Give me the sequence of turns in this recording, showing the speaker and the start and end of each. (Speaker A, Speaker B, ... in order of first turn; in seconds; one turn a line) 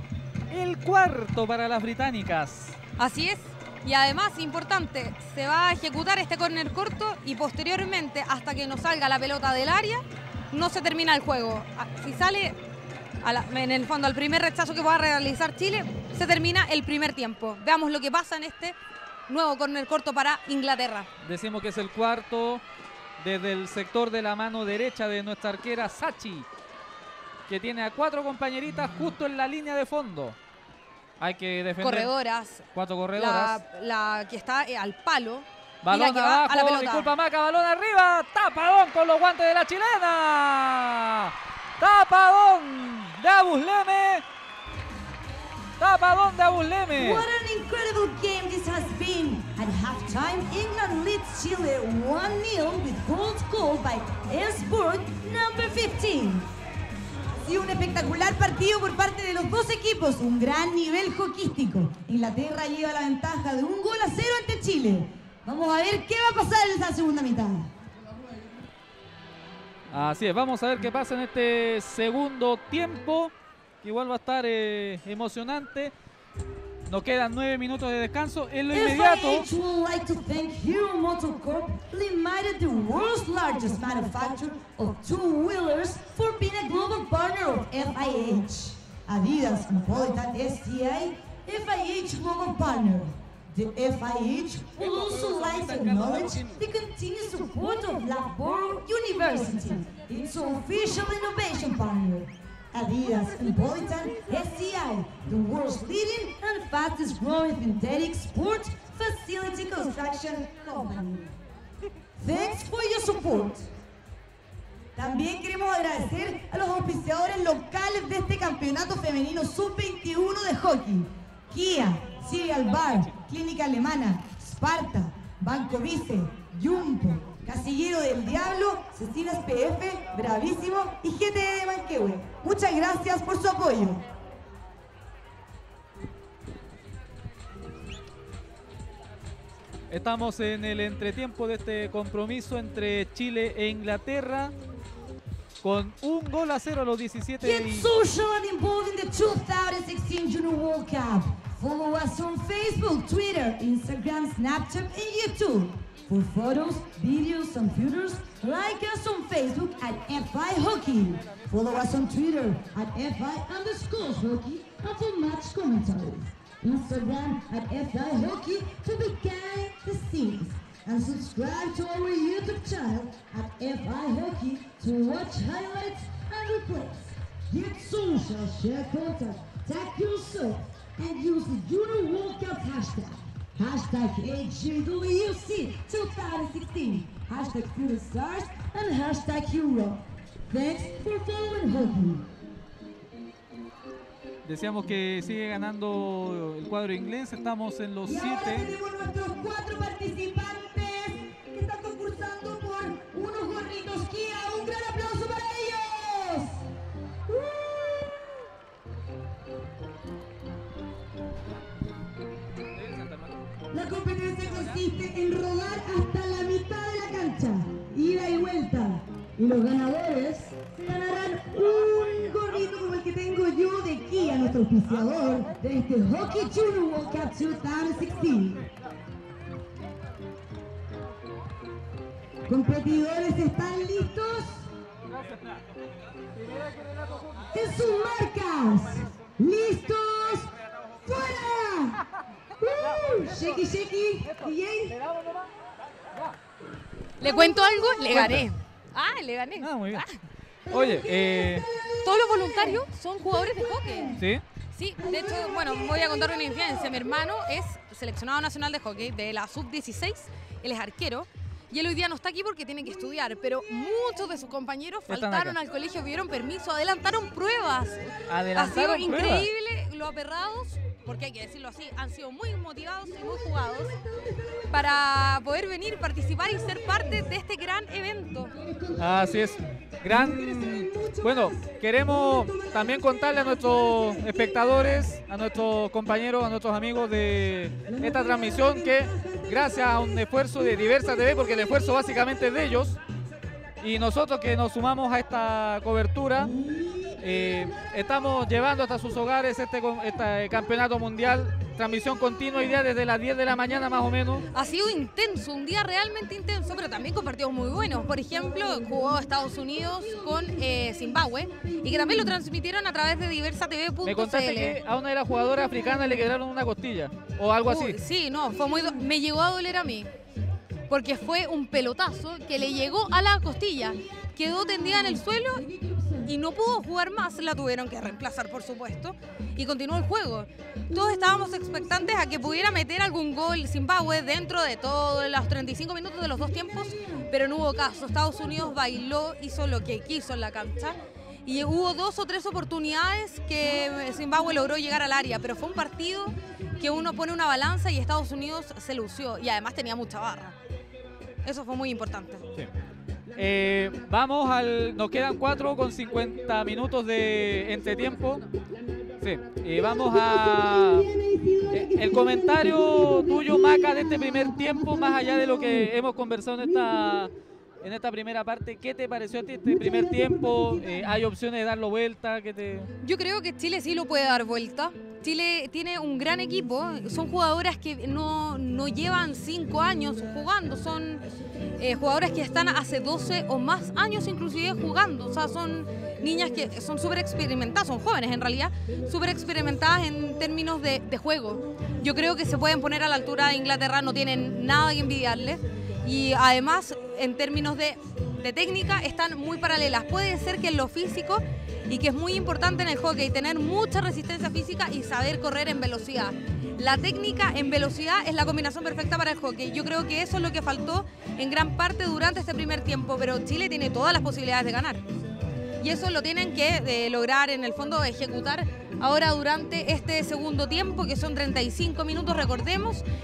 Speaker A: 0.5-2.8
Speaker B: 3.0-12.6
Speaker B: 13.2-18.8
Speaker B: 19.3-21.1
Speaker A: 21.2-22.6
Speaker A: 23.2-26.5
Speaker A: 27.5-30.4
Speaker A: 31.2-32.1
Speaker B: 31.8-37.1
Speaker A: 32.7-33.6
Speaker A: 35.8-44.2
Speaker A: 45.8-47.3
Speaker C: 47.0-56.5
Speaker C: 57.5-67.7
Speaker A: 69.9-75.9
Speaker A: 76.9-79.5
Speaker C: 78.7-111.3
Speaker C: 112.2-113.7
Speaker C: 115.0-134.1
Speaker A: 139.9-144.5
Speaker A: 145.6-147.9
Speaker C: 147.4-192.3
Speaker A: 194.4-198.7
Speaker C: 198.0-206.6
Speaker C: 207.3-208.4
Speaker A: 212.7-213.4
Speaker C: 213.7-228.7
Speaker C: 232.5-234.7
Speaker C: 237.5-242.1
Speaker C: 242.6-245.1
Speaker B: 247.2-250.2
Speaker C: 247.3-247.8
Speaker A: 248.1-248.5
Speaker A: 249.6-250.1
Speaker C: 250.7-254.3
Speaker A: 250.7-251.7
Speaker B: 252.0-274.0
Speaker A: 254.2-254.4
Speaker C: 255.0-257.1
Speaker A: 265.1-265.6
Speaker A: 268.3-269.5
Speaker C: 274.0-275.0
Speaker B: 274.7-278.6
Speaker C: 278.6-284.5
Speaker A: 279.0-293.0
Speaker C: 287.9-291.8
Speaker A: 293.8-296.5
Speaker C: 296.4-297.7
Speaker A: 297.2-304.4
Speaker B: 304.5-314.8
Speaker A: 314.0-318.0
Speaker B: 317.6-320.1
Speaker B: 320.9-325.7
Speaker B: 326.2-350.6
Speaker B: 351.4-352.5
Speaker A: 353.4-358.4
Speaker A: 359.2-361.1
Speaker C: 359.8-365.9
Speaker A: 361.7-372.9
Speaker C: 369.7-371.1
Speaker B: 373.0-381.2
Speaker B: 381.8-415.1
Speaker B: 415.8-423.0